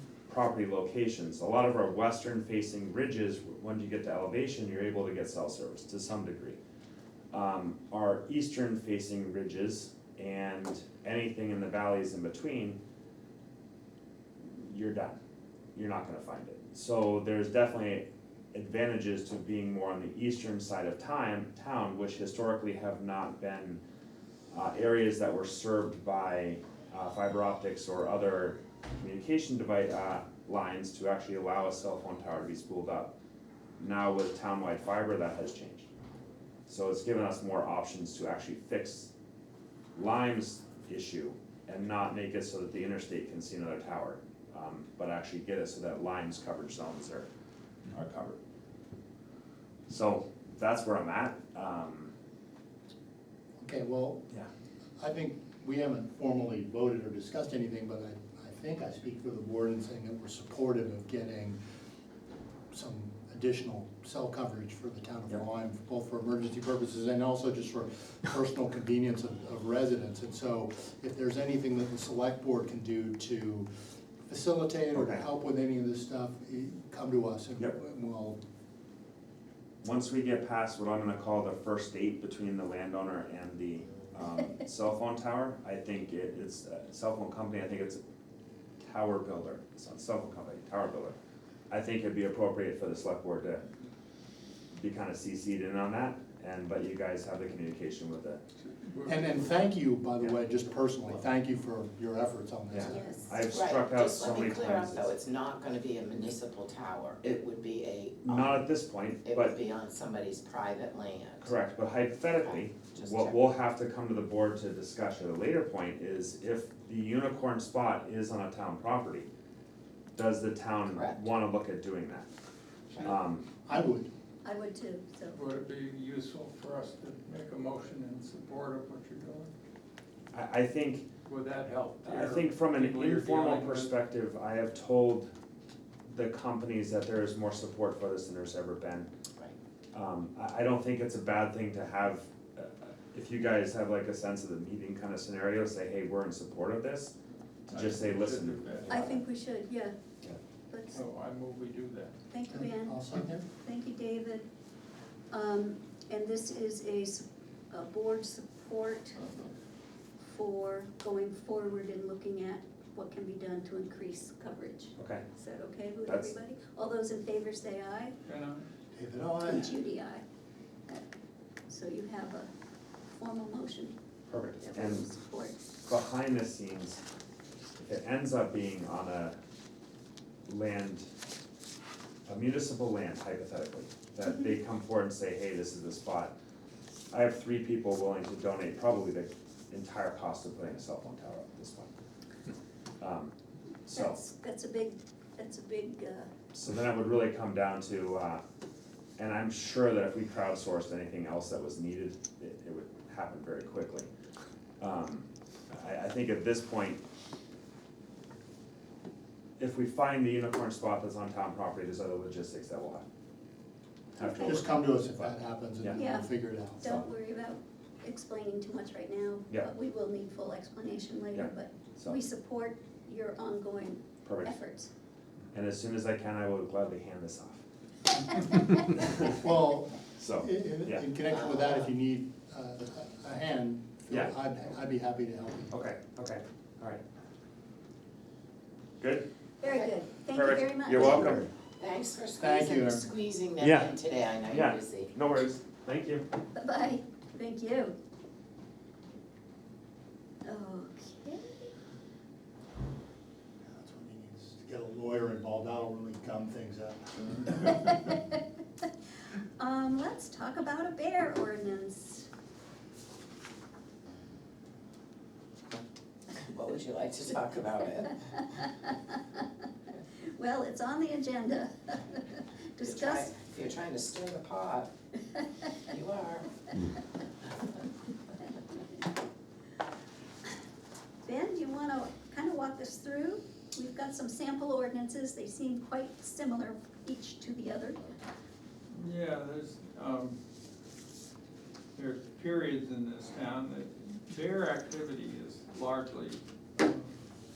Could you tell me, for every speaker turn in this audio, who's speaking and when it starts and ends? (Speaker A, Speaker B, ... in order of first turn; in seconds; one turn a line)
Speaker A: 0.3-6.6
Speaker A: 7.3-12.8
Speaker A: 14.4-15.2
Speaker A: 15.8-23.8
Speaker A: 24.5-33.1
Speaker A: 33.8-35.9
Speaker A: 36.7-39.1
Speaker A: 40.0-47.3
Speaker A: 47.9-48.4
Speaker A: 49.9-52.1
Speaker B: 53.6-54.3
Speaker B: 55.0-61.6
Speaker B: 62.7-73.7
Speaker B: 74.3-78.4
Speaker A: 75.0-75.2
Speaker A: 79.8-88.0
Speaker A: 88.8-91.2
Speaker A: 91.7-93.6
Speaker A: 94.8-98.4
Speaker C: 98.6-99.3
Speaker B: 99.1-103.2
Speaker A: 102.7-105.1
Speaker D: 102.9-103.3
Speaker E: 103.5-108.7
Speaker A: 108.2-109.5
Speaker E: 109.2-111.5
Speaker A: 111.4-119.3
Speaker E: 112.9-113.4
Speaker A: 120.2-122.3
Speaker E: 120.9-121.3
Speaker A: 123.0-123.5
Speaker B: 123.7-124.1
Speaker D: 124.4-125.4
Speaker C: 125.3-129.5
Speaker A: 130.3-131.1
Speaker C: 131.3-133.9
Speaker A: 132.1-135.3
Speaker A: 136.1-139.1
Speaker A: 139.9-147.1
Speaker C: 147.7-149.2
Speaker A: 147.7-149.2
Speaker D: 148.9-150.0
Speaker D: 150.7-151.0
Speaker C: 150.9-152.2
Speaker D: 152.3-154.4
Speaker B: 152.5-153.4
Speaker D: 155.3-159.2
Speaker D: 160.3-168.2
Speaker A: 165.0-165.2
Speaker A: 166.1-166.3
Speaker C: 168.3-168.6
Speaker B: 168.9-169.8
Speaker D: 169.4-170.2
Speaker D: 171.7-172.5
Speaker D: 173.2-174.0
Speaker A: 174.3-175.1
Speaker D: 174.6-175.6
Speaker A: 175.8-177.0
Speaker A: 177.8-179.4
Speaker A: 180.5-181.1
Speaker A: 182.3-186.3
Speaker A: 187.1-191.9
Speaker A: 193.0-193.3
Speaker A: 193.9-194.2
Speaker D: 193.9-196.3
Speaker A: 196.5-198.4
Speaker A: 199.2-204.1
Speaker A: 204.8-207.0
Speaker A: 209.6-213.1
Speaker D: 214.2-214.6
Speaker A: 214.2-216.0
Speaker B: 214.4-217.0
Speaker D: 215.9-224.9
Speaker A: 221.3-222.2
Speaker A: 224.2-224.5
Speaker A: 225.5-227.6
Speaker A: 228.9-229.4
Speaker B: 229.3-235.7
Speaker A: 230.2-231.0
Speaker E: 231.3-231.9
Speaker A: 235.7-237.0
Speaker A: 239.0-239.2
Speaker D: 239.6-241.4
Speaker E: 239.6-239.9
Speaker A: 240.3-241.5
Speaker E: 241.8-245.1
Speaker B: 242.4-243.1
Speaker A: 243.6-243.9
Speaker A: 244.5-246.3
Speaker D: 246.6-248.0
Speaker D: 250.4-251.7
Speaker B: 253.6-257.9
Speaker D: 257.8-258.2
Speaker D: 259.6-262.3
Speaker E: 266.4-268.3
Speaker D: 268.5-269.4
Speaker D: 270.3-273.3
Speaker E: 272.8-274.9
Speaker E: 275.9-276.5
Speaker D: 281.2-288.2
Speaker C: 288.9-290.4
Speaker C: 291.9-297.2